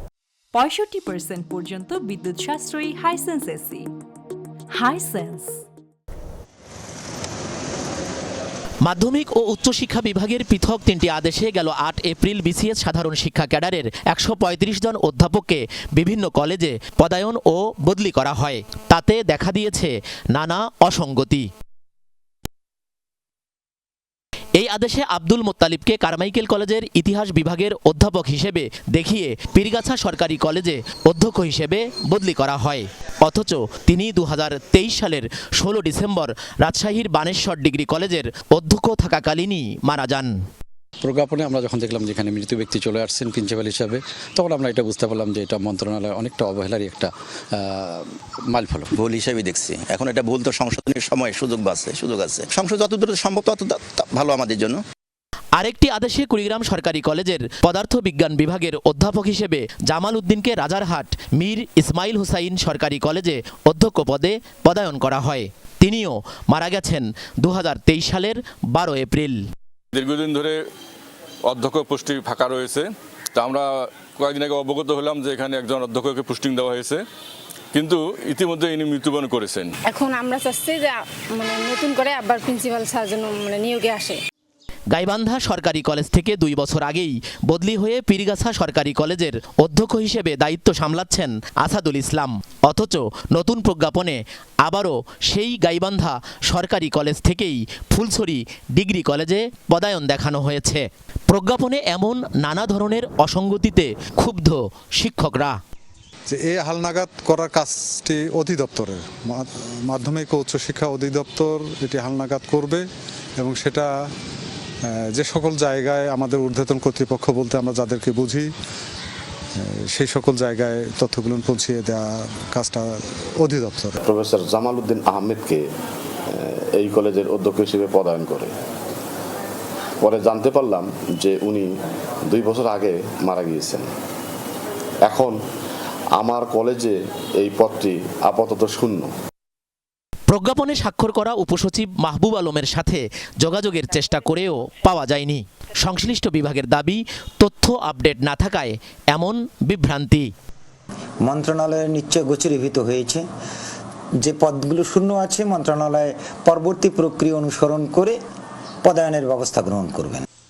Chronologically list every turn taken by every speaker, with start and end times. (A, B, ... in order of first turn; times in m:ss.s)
0:00.5-0:03.9 A
0:04.7-0:05.6 A
0:08.8-0:21.5 B
0:24.6-0:40.3 B
0:41.0-0:48.9 C
0:48.9-0:54.8 D
0:55.6-1:09.4 B
1:09.9-1:10.6 E
1:11.5-1:17.0 E
1:17.7-1:19.7 E
1:19.8-1:24.2 F
1:24.9-1:45.6 B
1:46.3-1:52.8 G
1:53.4-1:53.9 G
1:55.1-1:58.5 G
1:59.9-2:02.8 G
2:03.4-2:04.0 G
2:04.0-2:05.6 H
2:06.3-2:08.5 H
2:10.0-2:11.7 H
2:12.3-2:13.9 H
2:15.0-2:15.4 H
2:16.2-2:19.1 H
2:20.3-2:30.3 B
2:31.2-2:33.2 I
2:34.2-2:38.2 I
2:38.8-2:40.2 I